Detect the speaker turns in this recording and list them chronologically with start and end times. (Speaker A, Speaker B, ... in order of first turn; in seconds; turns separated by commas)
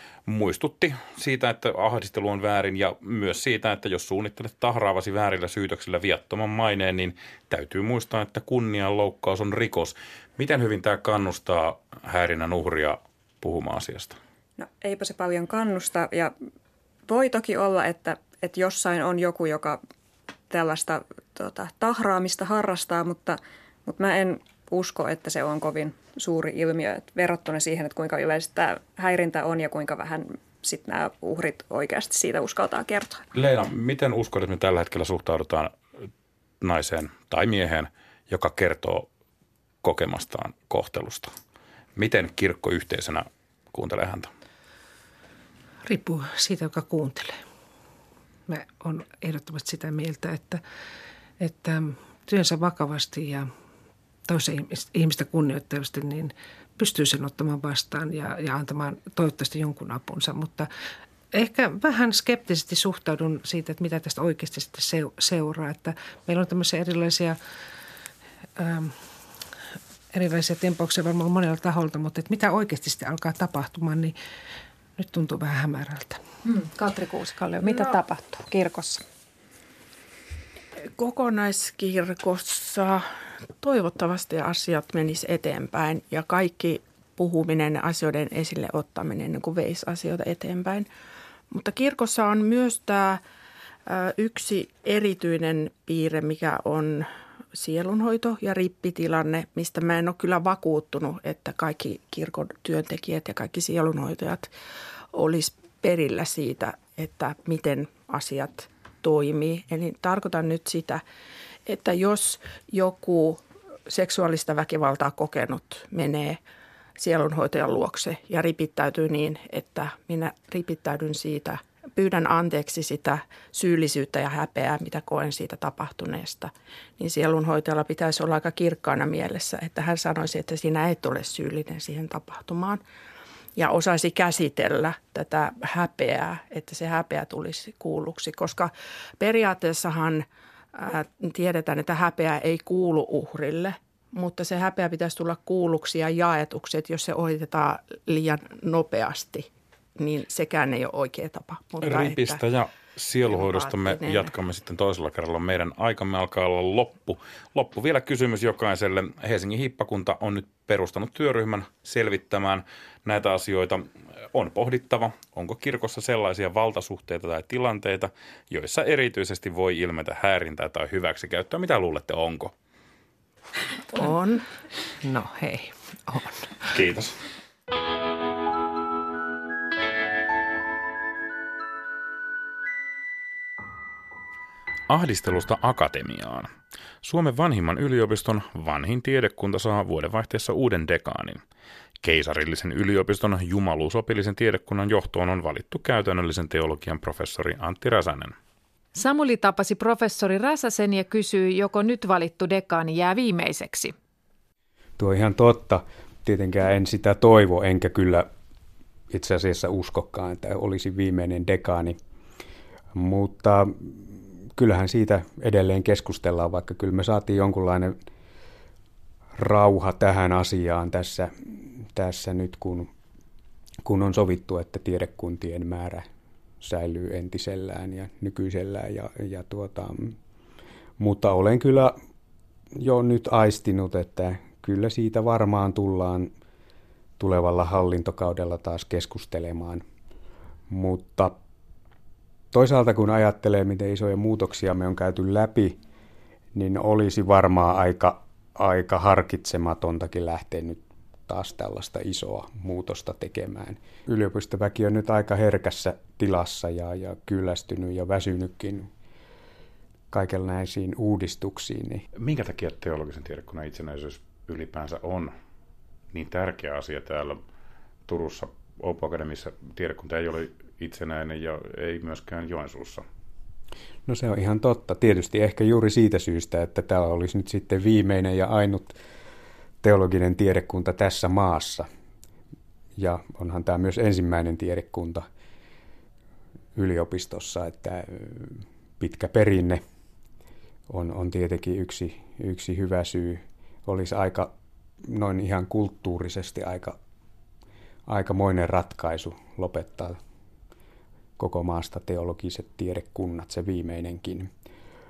Speaker A: 0.3-14.2, Speaker B: 14.6-16.3, Speaker B: 17.1-19.8, Speaker B: 20.5-33.2, Speaker A: 33.4-35.7, Speaker A: 36.6-39.1, Speaker A: 39.8-41.3, Speaker A: 42.0-44.3, Speaker C: 45.8-47.4, Speaker C: 48.5-50.6, Speaker C: 51.4-53.5, Speaker C: 54.3-60.7, Speaker C: 61.3-67.4, Speaker C: 68.6-69.1, Speaker C: 70.1-74.2, Speaker C: 75.0-76.2, Speaker D: 76.4-79.0, Speaker E: 80.8-90.9, Speaker E: 91.5-93.2, Speaker E: 93.9-104.5, Speaker E: 105.1-111.0, Speaker E: 111.7-116.4, Speaker E: 117.0-132.8, Speaker E: 133.6-152.4, Speaker A: 151.8-172.5, Speaker E: 153.3-154.3, Speaker E: 173.9-174.4, Speaker C: 175.0-176.7, Speaker A: 176.7-177.1, Speaker A: 184.9-186.5, Speaker A: 187.0-191.4, Speaker A: 192.0-198.3, Speaker D: 198.9-203.9, Speaker F: 205.0-208.3, Speaker F: 209.1-212.0, Speaker F: 212.9-218.0, Speaker F: 219.4-222.9, Speaker F: 223.8-226.1, Speaker F: 226.6-230.2, Speaker F: 231.0-232.0, Speaker F: 232.8-236.3, Speaker F: 237.2-239.8, Speaker F: 240.7-241.4, Speaker F: 242.5-245.8, Speaker F: 246.5-258.9, Speaker F: 260.1-262.1, Speaker A: 262.2-265.3, Speaker A: 266.1-267.4, Speaker A: 268.1-273.0, Speaker F: 274.1-279.0, Speaker F: 279.8-281.9, Speaker F: 283.0-285.2, Speaker F: 286.8-289.8, Speaker F: 290.9-294.5, Speaker F: 295.1-297.0, Speaker F: 298.1-300.2, Speaker F: 301.4-304.5